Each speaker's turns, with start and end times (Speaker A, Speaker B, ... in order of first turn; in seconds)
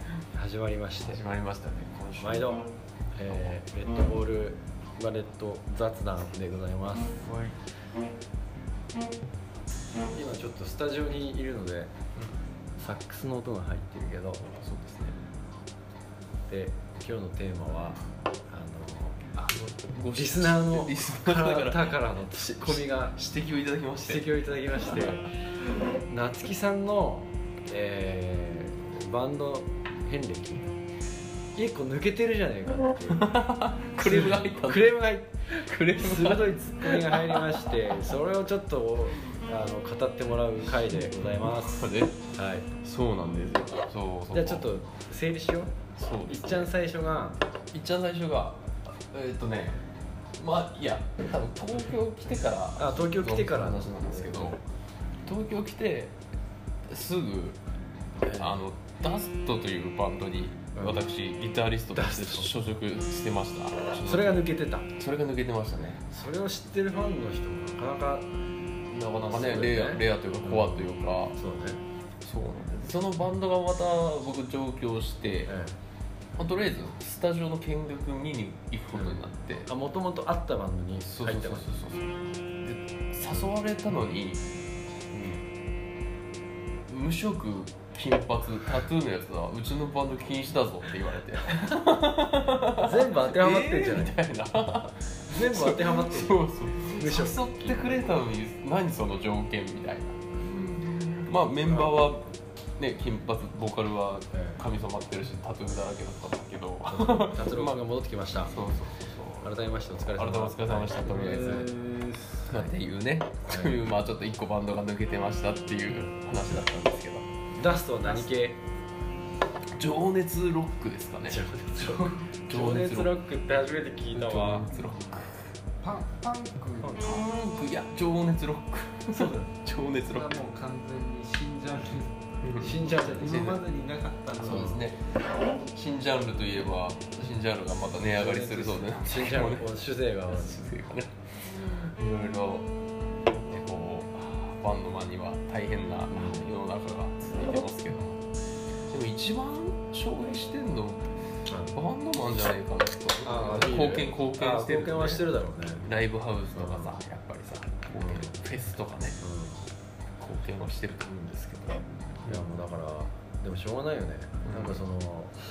Speaker A: 0.3-1.2, 2.2-7.2, 10.1-11.9, 12.8-14.5, 16.5-19.2, 20.1-23.2, 24.0-25.2, 26.0-30.7, 31.5-33.3, 34.0-42.7, 44.3-45.7, 46.3-47.4, 52.8-54.6, 58.2-58.6, 60.8-61.1, 61.9-62.5, 64.0-64.9, 66.1-68.3, 69.3-71.8, 75.5-75.7, 78.9-81.7, 92.7-94.2, 95.3-98.1, 101.6-101.9, 104.3-104.6, 106.9-108.5, 109.4-112.7, 113.5-113.7, 117.6-118.6, 121.3-124.7, 129.1-129.5, 132.6-133.5, 134.4-134.9, 138.1-140.6, 146.1-146.4, 151.5-151.8, 153.2-155.9, 156.5-156.9, 158.0-158.4, 159.2-159.7, 161.1-165.3
Speaker B: 1.0-2.6, 3.3-3.5, 7.2-7.5, 14.5-15.2, 19.3-24.3, 33.1-37.7, 40.6-42.2, 42.8-44.7, 46.0-46.7, 47.7-49.8, 50.4-54.6, 55.2-56.2, 56.9-57.6, 58.3-66.0, 68.9-71.4, 72.2-75.5, 76.4-79.7, 81.0-84.4, 86.9-107.8, 108.4-109.5, 110.0-111.7, 112.4-117.2, 119.8-123.1, 124.1-125.4, 126.9-130.3, 132.4-133.7, 134.3-135.0, 135.7-139.8, 140.3-142.7, 143.3-148.2, 148.9-151.1, 151.7-159.2, 160.2-161.1, 164.4-164.8
Speaker C: 111.2-112.2, 125.8-127.0, 130.0-134.8